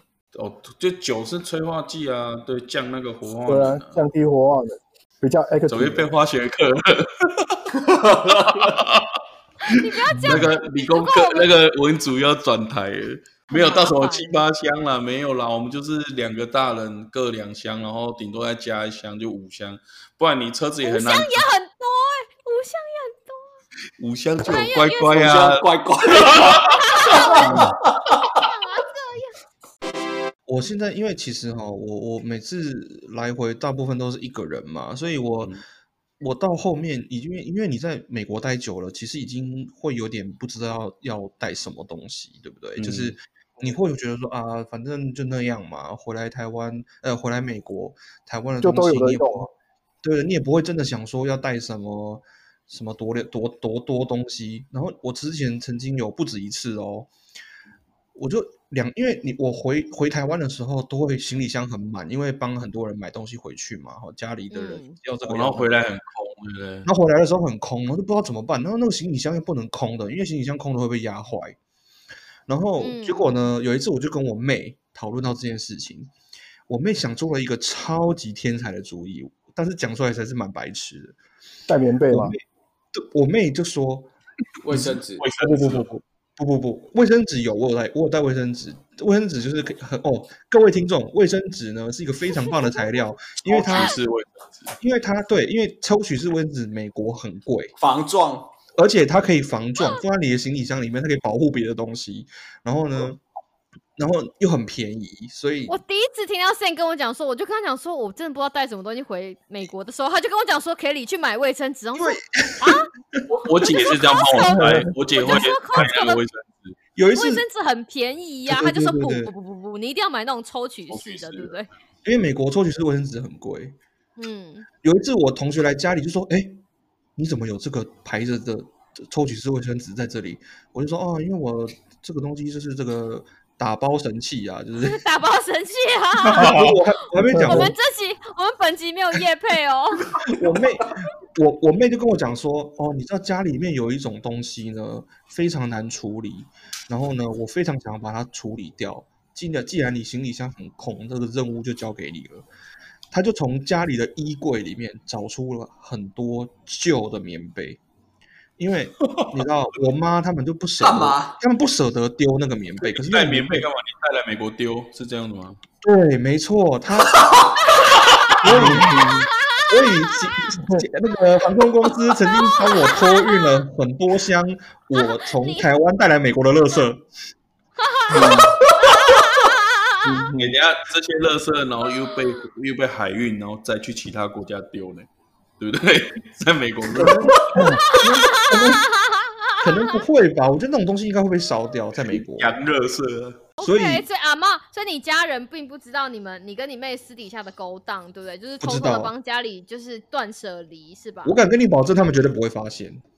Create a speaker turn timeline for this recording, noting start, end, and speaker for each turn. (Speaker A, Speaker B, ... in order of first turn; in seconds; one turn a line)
Speaker A: 0.3-4.0
Speaker B: 3.5-6.0
Speaker A: 5.7-21.4
Speaker C: 7.8-8.8
Speaker D: 9.6-11.5
Speaker D: 13.5-14.4
Speaker D: 20.8-23.6
Speaker A: 24.0-26.6
Speaker D: 24.4-25.2
Speaker C: 25.1-28.4
Speaker D: 26.7-27.6
Speaker A: 27.4-27.7
Speaker E: 27.4-27.7
Speaker D: 28.4-29.3
Speaker E: 30.5-35.6
Speaker E: 36.2-57.1
Speaker A: 42.8-43.2
Speaker B: 48.6-49.5
Speaker E: 58.1-65.8
Speaker D: 64.5-65.0
Speaker A: 65.3-66.9
Speaker E: 66.8-71.6
Speaker E: 72.5-76.1
Speaker D: 72.8-73.3
Speaker E: 76.7-81.2
Speaker B: 81.7-82.3
Speaker E: 82.1-84.1
Speaker C: 84.6-85.3
Speaker E: 84.7-94.0
Speaker A: 85.2-85.9
Speaker D: 92.4-92.8
Speaker A: 93.4-94.8
Speaker E: 94.8-97.7
Speaker C: 97.8-98.5
Speaker E: 98.8-103.2
Speaker E: 104.0-105.8
Speaker D: 105.7-116.2
Speaker E: 112.0-113.2
Speaker A: 113.4-116.8
Speaker E: 117.0-117.4
Speaker D: 117.1-121.7
Speaker E: 118.5-119.3
Speaker A: 120.9-121.5
Speaker E: 122.0-123.8
Speaker D: 124.2-124.7
Speaker E: 124.8-126.6
Speaker E: 127.2-135.0
Speaker D: 134.8-136.8
Speaker E: 136.3-137.7
Speaker B: 137.2-137.7
Speaker D: 137.4-140.1
Speaker E: 140.2-152.4
Speaker E: 153.1-157.8
Speaker E: 158.6-163.7
Speaker C: 160.8-161.4
Speaker A: 162.8-165.6
Speaker E: 165.8-167.3
Speaker E: 168.4-177.1
Speaker A: 168.4-169.0
Speaker B: 168.5-169.3
Speaker D: 169.0-170.3
Speaker D: 172.2-173.6
Speaker D: 174.9-175.7
Speaker D: 177.8-180.2
Speaker B: 178.1-178.6
Speaker A: 178.8-179.3
Speaker B: 180.0-180.5
Speaker A: 180.3-185.1
Speaker A: 185.6-187.6
Speaker E: 186.9-188.9
Speaker D: 187.5-190.0
Speaker E: 189.6-192.6
Speaker A: 192.1-193.4
Speaker D: 193.6-201.4
Speaker E: 193.6-194.1
Speaker E: 198.6-199.1
Speaker E: 201.2-203.0